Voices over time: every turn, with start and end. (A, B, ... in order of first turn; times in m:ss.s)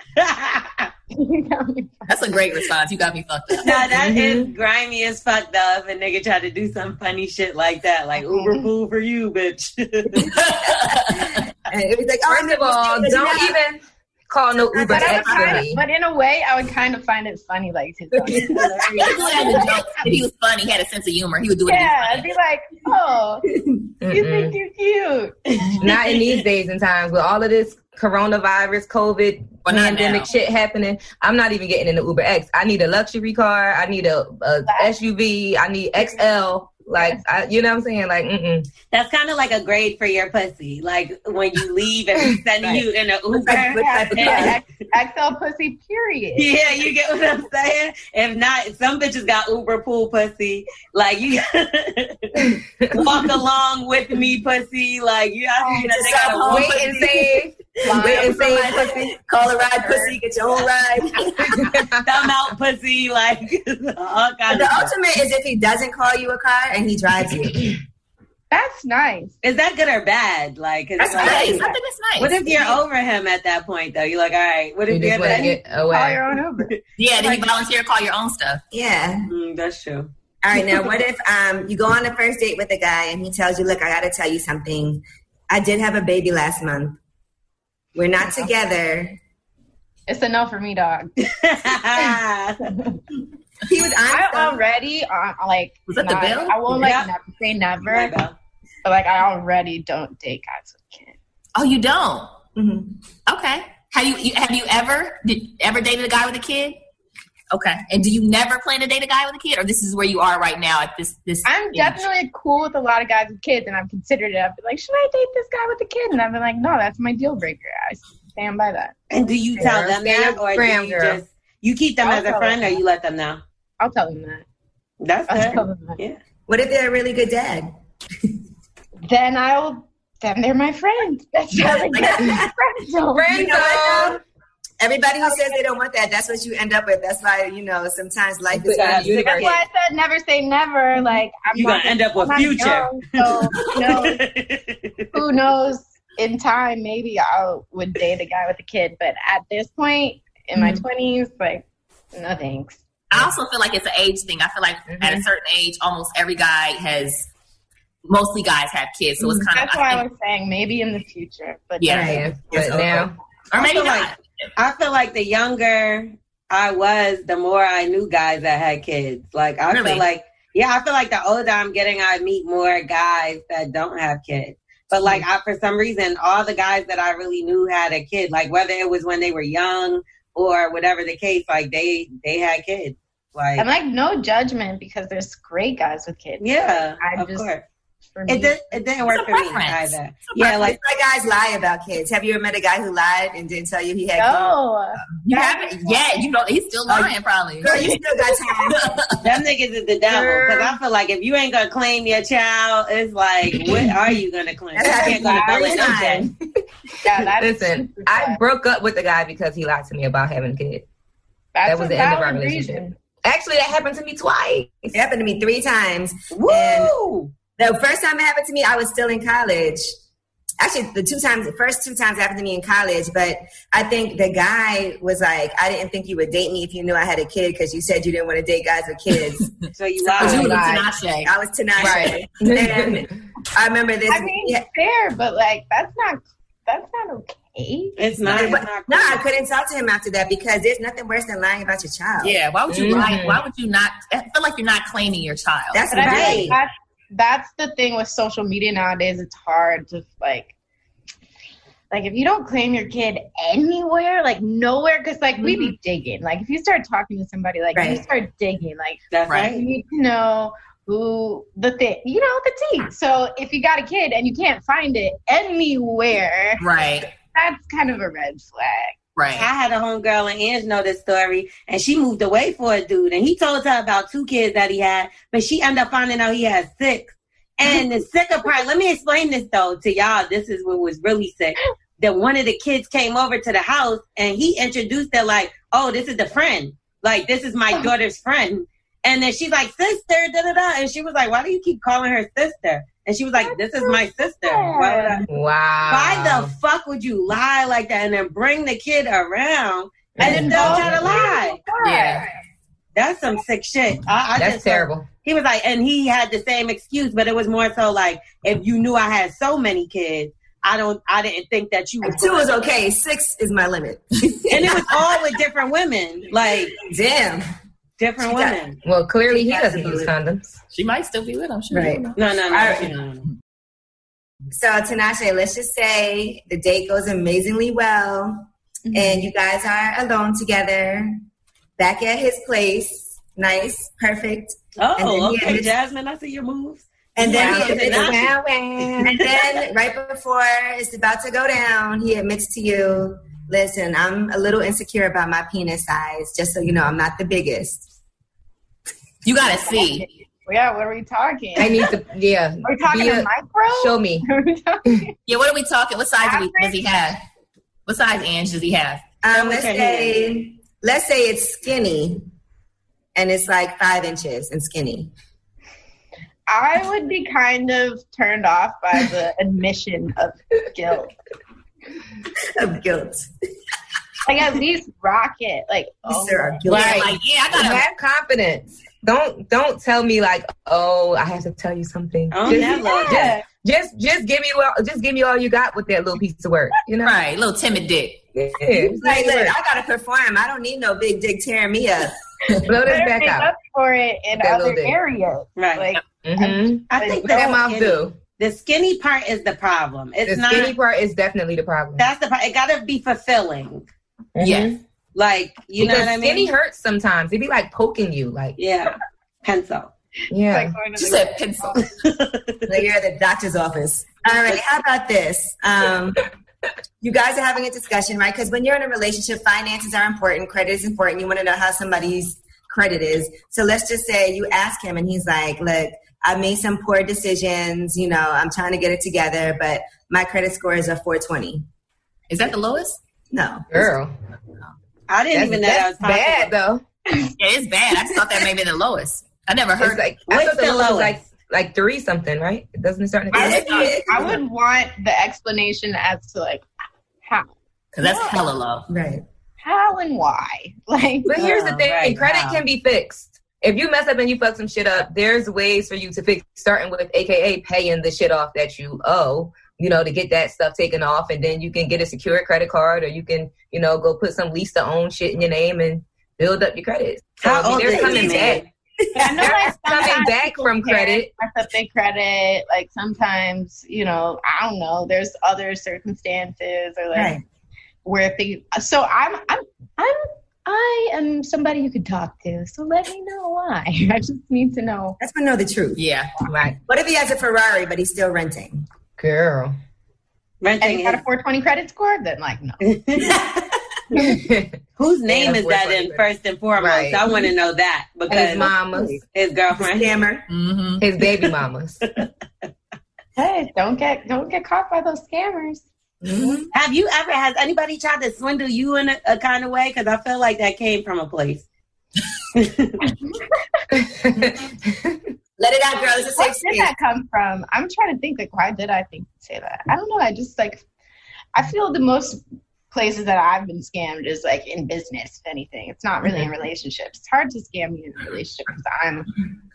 0:00.2-0:00.9 A
0:01.1-0:02.1 B
0:02.0-0:03.9 C
0:03.6-0:10.3 A
0:03.9-0:04.5 D
0:08.3-0:08.7 B
0:10.2-0:11.4 C
0:11.7-0:13.6 E
0:12.3-0:15.8 D
0:14.7-0:15.6 E
0:14.9-0:19.8 B
0:18.5-0:19.6 A
0:18.9-0:22.3 C
0:21.6-0:23.4 B
0:24.0-0:24.5 D
0:24.0-0:25.4 B
0:25.8-0:38.7 D
0:25.8-0:26.3 A
0:29.6-0:30.3 C
0:34.6-0:34.9 B
0:38.9-0:44.6 A
0:43.3-0:44.6 E
0:43.8-0:46.6 B
0:46.4-0:56.8 A
0:52.4-0:52.9 D
0:55.6-0:56.0 B
0:55.8-1:01.8 E
0:56.2-0:59.1 D
0:57.8-0:58.9 B
0:59.8-1:00.1 B
1:01.5-1:02.1 D
1:02.0-1:04.9 A
1:04.5-1:07.8 E
1:08.5-1:09.3 B
1:09.4-1:11.7 A
1:11.0-1:11.7 E
1:11.2-1:12.6 C
1:12.2-1:15.5 A
1:14.9-1:16.2 D
1:15.2-1:17.4 B
1:17.0-1:18.6 C
1:18.7-1:19.3 E
1:19.3-1:20.1 A
1:20.4-1:27.0 E
1:27.9-1:29.2 E
1:30.1-1:31.1 B
1:31.2-1:32.7 A
1:32.7-1:33.0 B
1:33.6-1:34.6 E
1:34.1-1:38.1 B
1:35.9-1:36.7 C
1:36.7-1:37.1 A
1:37.8-1:38.4 A
1:38.8-1:41.2 B
1:41.5-1:42.3 C
1:42.6-1:43.0 E
1:43.3-1:46.8 C
1:47.5-1:52.0 C
1:51.4-1:58.9 B
1:59.1-2:03.4 A
1:59.6-2:01.2 D
2:02.0-2:02.8 B
2:03.8-2:04.4 B
2:05.0-2:06.2 A
2:05.3-2:06.0 B
2:06.5-2:07.7 E
2:09.0-2:14.0 B
2:11.6-2:12.4 E
2:13.1-2:14.2 D
2:13.3-2:14.2 E
2:14.8-2:19.3 E
2:15.2-2:15.6 B
2:18.5-2:19.6 D
2:18.9-2:19.6 A
2:19.2-2:24.2 B
2:21.5-2:25.0 A
2:25.1-2:32.8 B
2:33.1-2:37.3 C
2:34.9-2:35.2 D
2:38.0-2:40.0 C
2:39.2-2:39.4 E
2:39.5-2:42.2 B
2:41.8-2:44.5 C
2:41.9-2:43.0 E
2:41.9-2:43.1 D
2:43.5-3:03.7 A
2:49.7-2:50.0 C
3:03.6-3:07.5 B
3:06.4-3:07.6 A
3:08.1-3:08.6 B
3:08.3-3:10.8 A
3:09.1-3:10.6 C
3:10.4-3:14.6 E
3:14.2-3:16.2 B
3:15.2-3:18.0 C
3:16.9-3:19.0 E
3:18.6-3:19.3 C
3:19.2-3:26.3 A
3:20.0-3:20.8 D
3:24.8-3:26.3 E
3:27.0-3:28.4 B
3:27.4-3:30.8 D
3:31.5-3:32.9 B
3:31.6-3:34.9 D
3:34.9-3:36.9 E
3:36.3-3:37.3 A
3:37.6-3:39.9 E
3:40.6-3:49.5 E
3:49.8-3:50.6 A
3:50.1-3:52.1 C
3:50.2-3:50.9 D
3:50.2-3:50.6 E
3:51.2-3:54.6 E
3:51.8-3:53.2 D
3:54.1-3:58.1 B
3:58.0-3:59.2 A
3:58.3-4:02.4 E
4:02.2-4:06.4 C
4:02.7-4:03.4 D
4:05.7-4:06.6 E
4:05.9-4:10.5 B
4:06.0-4:06.5 A
4:11.9-4:26.6 B
4:17.7-4:18.0 E
4:19.1-4:19.6 A
4:19.3-4:19.6 C
4:26.6-4:27.1 C
4:27.2-4:29.0 B
4:29.2-4:29.5 C
4:29.3-4:55.3 A
4:53.4-4:55.2 B
4:55.3-4:56.5 D
4:55.9-5:01.6 A
5:00.2-5:01.1 D
5:00.2-5:00.9 E
5:00.2-5:02.3 B
5:01.8-5:02.2 C
5:02.9-5:12.6 A
5:04.4-5:05.1 D
5:12.0-5:15.2 E
5:14.5-5:16.8 A
5:16.8-5:17.4 E
5:18.0-5:18.8 A
5:18.2-5:18.6 E
5:18.8-5:20.6 D
5:19.3-5:20.1 E
5:20.7-5:22.2 C
5:21.7-5:22.9 E
5:22.2-5:23.2 A
5:24.5-5:31.2 E
5:28.9-5:29.2 B
5:31.8-5:35.7 E
5:34.8-5:38.9 A
5:37.2-5:38.3 E
5:37.4-5:39.2 D
5:39.0-5:47.9 E
5:49.2-5:50.1 C
5:49.5-5:51.8 B
5:51.6-5:54.2 D
5:52.6-5:55.1 B
5:55.3-5:57.2 C
5:56.2-5:56.8 B
5:57.8-5:59.0 C
5:59.2-6:02.2 E
5:59.3-6:00.2 A
6:03.1-6:05.1 E
6:06.5-6:11.1 B
6:12.6-6:13.3 E
6:14.2-6:16.6 B
6:16.1-6:17.2 E
6:16.7-6:17.8 C
6:16.7-6:27.2 D
6:22.3-6:23.3 A
6:22.5-6:23.4 B
6:27.0-6:28.2 C
6:28.3-6:29.5 D
6:28.8-6:32.2 E
6:32.6-6:33.5 D
6:32.8-6:37.6 B
6:34.4-6:35.0 D
6:35.6-6:35.9 A
6:36.2-6:38.2 D
6:36.9-6:40.7 A
6:40.2-6:42.1 D
6:42.0-6:43.8 A
6:44.4-6:44.8 D
6:44.4-6:44.8 C
6:45.1-6:46.5 A
6:45.8-6:48.6 D
6:48.6-6:49.9 A
6:50.3-6:50.8 D
6:50.4-6:51.8 B
6:50.9-6:51.8 C
6:51.8-6:52.6 A
6:52.7-6:56.2 E
6:57.0-7:11.6 E
7:12.3-7:13.0 C
7:13.3-7:13.9 E
7:13.7-7:14.1 D
7:15.1-7:16.5 A
7:15.3-7:16.8 D
7:17.4-7:20.0 C
7:19.8-7:23.9 D
7:20.3-7:21.2 A
7:23.3-7:24.4 E
7:23.3-7:26.6 B
7:23.4-7:23.9 C
7:27.2-7:28.4 B
7:27.9-7:28.9 C
7:28.9-7:29.2 E
7:29.6-7:31.4 B
7:31.2-7:48.6 D
7:31.4-7:32.6 A
7:47.4-7:48.6 A
7:47.8-7:48.6 E
7:49.2-7:57.4 B
7:49.2-7:49.4 E
7:49.2-7:51.3 D
7:57.1-7:57.4 E
7:58.0-8:05.2 B
8:05.2-8:06.1 E
8:06.0-8:06.3 C
8:06.5-8:06.8 D
8:06.8-8:08.9 E
8:09.2-8:09.7 D
8:10.6-8:11.2 A
8:10.8-8:12.8 B
8:12.8-8:13.3 A
8:14.1-8:16.2 D
8:15.0-8:18.7 A
8:16.8-8:17.2 D
8:18.3-8:19.2 D
8:18.9-8:19.2 B
8:19.3-8:20.2 A
8:19.7-8:20.5 E
8:20.5-8:21.0 C
8:21.0-8:22.0 D
8:23.4-8:25.8 B
8:26.2-8:26.7 E
8:26.7-8:31.6 A
8:32.5-8:33.0 A
8:33.0-8:33.8 B
8:34.2-8:35.2 D
8:35.6-8:36.9 E
8:36.3-8:40.8 B
8:41.5-8:49.4 B